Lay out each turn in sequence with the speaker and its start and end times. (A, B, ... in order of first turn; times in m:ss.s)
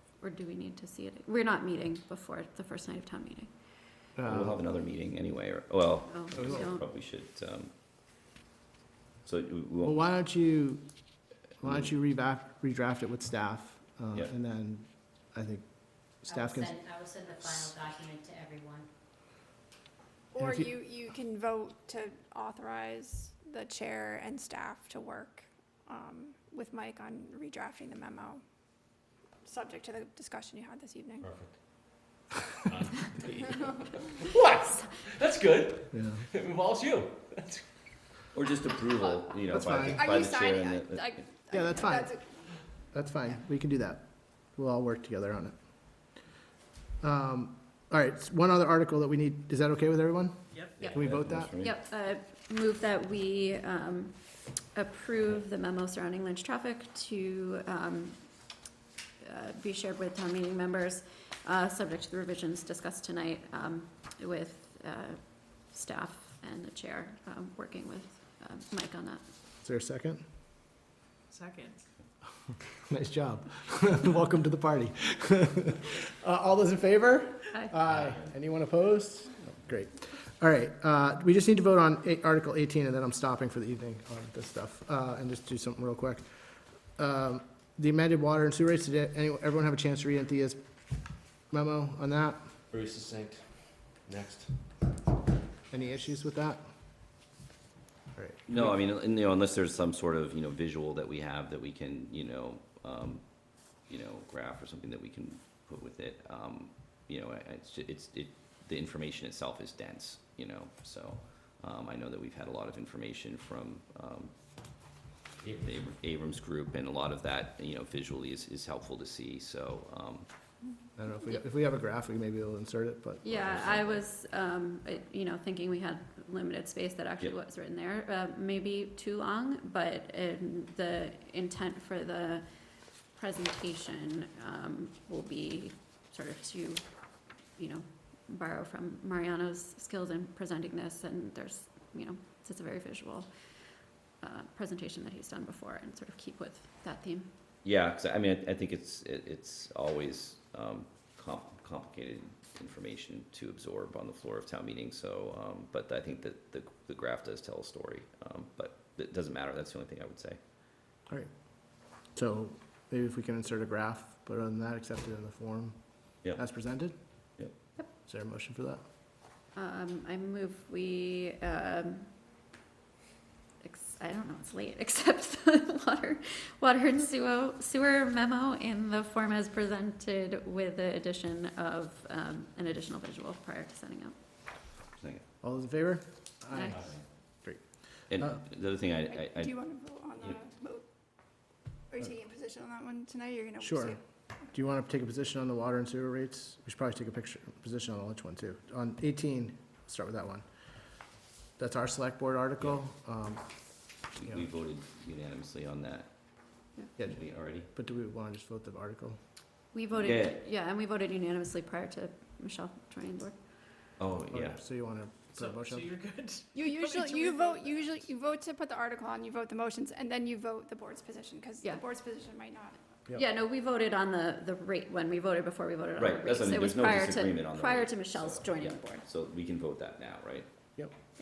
0:00.2-0:03.5 A
0:04.2-0:04.6 B
0:04.2-0:07.7 C
0:06.1-0:06.8 A
0:09.2-0:10.0 C
0:09.8-0:10.8 B
0:11.6-0:15.6 B
0:11.6-0:11.9 C
0:16.2-0:16.8 B
0:16.3-0:18.9 D
0:20.3-0:28.4 E
0:20.4-0:20.7 B
0:29.4-0:31.3 E
0:31.2-0:31.6 F
0:32.5-0:37.6 F
0:35.9-0:36.2 B
0:38.3-0:41.2 C
0:39.5-0:40.1 B
0:39.9-0:42.3 E
0:41.5-0:42.2 B
0:42.9-0:45.5 B
0:47.0-0:51.5 B
0:50.5-0:50.8 G
0:50.8-0:51.7 C
0:51.5-0:54.2 A
0:54.7-0:58.2 A
0:59.2-1:09.2 A
1:09.6-1:10.2 B
1:11.3-1:11.9 G
1:12.9-1:26.3 B
1:27.0-1:30.6 B
1:31.5-1:32.5 B
1:32.7-1:34.7 F
1:35.7-1:36.6 B
1:38.2-1:38.7 B
1:38.5-1:43.2 C
1:43.9-1:54.3 C
1:55.4-1:55.9 F
1:55.6-2:00.3 C
2:01.0-2:03.3 B
2:03.2-2:12.5 A
2:03.3-2:04.0 C
2:13.1-2:16.8 A
2:17.6-2:23.3 A
2:24.2-2:27.3 A
2:27.6-2:40.4 C
2:42.1-2:45.8 B
2:46.3-2:46.9 B
2:48.0-2:48.8 B
2:49.5-2:52.1 A
2:53.6-3:04.1 A
3:05.4-3:06.9 B
3:06.5-3:06.9 A
3:08.1-3:09.6 C
3:08.9-3:10.8 E
3:11.9-3:14.0 E
3:13.6-3:14.0 B
3:14.5-3:20.4 B
3:21.6-3:23.4 B
3:24.2-3:26.1 C
3:27.0-3:29.2 B
3:27.0-3:27.7 C
3:29.7-3:33.3 A
3:30.0-3:30.4 C
3:34.0-3:34.6 C
3:34.3-3:35.9 B
3:35.4-3:37.5 G
3:36.5-3:42.8 E
3:43.2-3:49.1 A
3:46.0-3:50.5 C